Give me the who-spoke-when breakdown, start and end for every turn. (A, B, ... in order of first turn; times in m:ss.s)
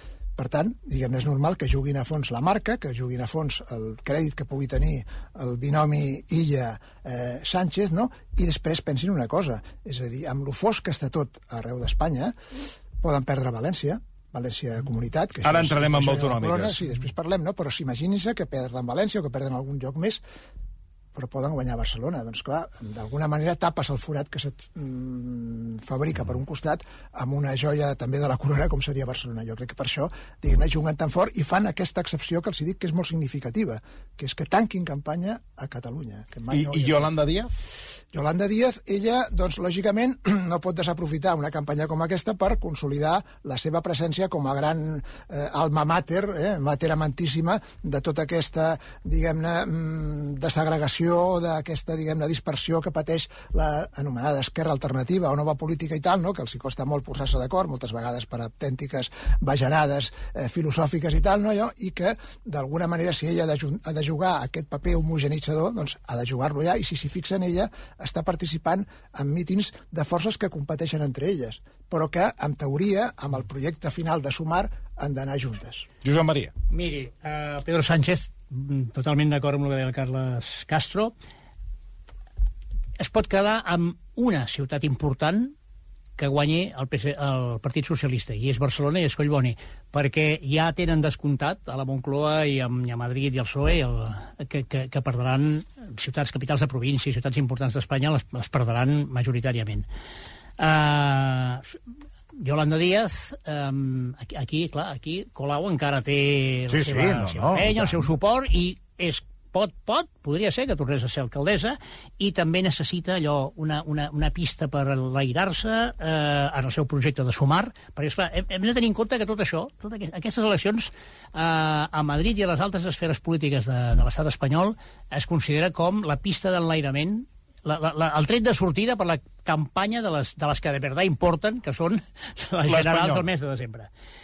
0:00.4-0:12.3 A
0:13.0-0:20.2 A
0:15.4-0:16.8 B
0:21.1-0:37.1 A
0:36.5-0:37.5 B
0:38.1-1:15.9 A
1:16.0-1:16.5 B
1:16.7-1:21.1 C
1:23.0-1:25.6 C
1:26.2-1:39.9 C
1:40.6-1:41.8 C
1:42.4-2:13.9 C
1:46.7-1:48.1 B
2:12.7-2:13.3 B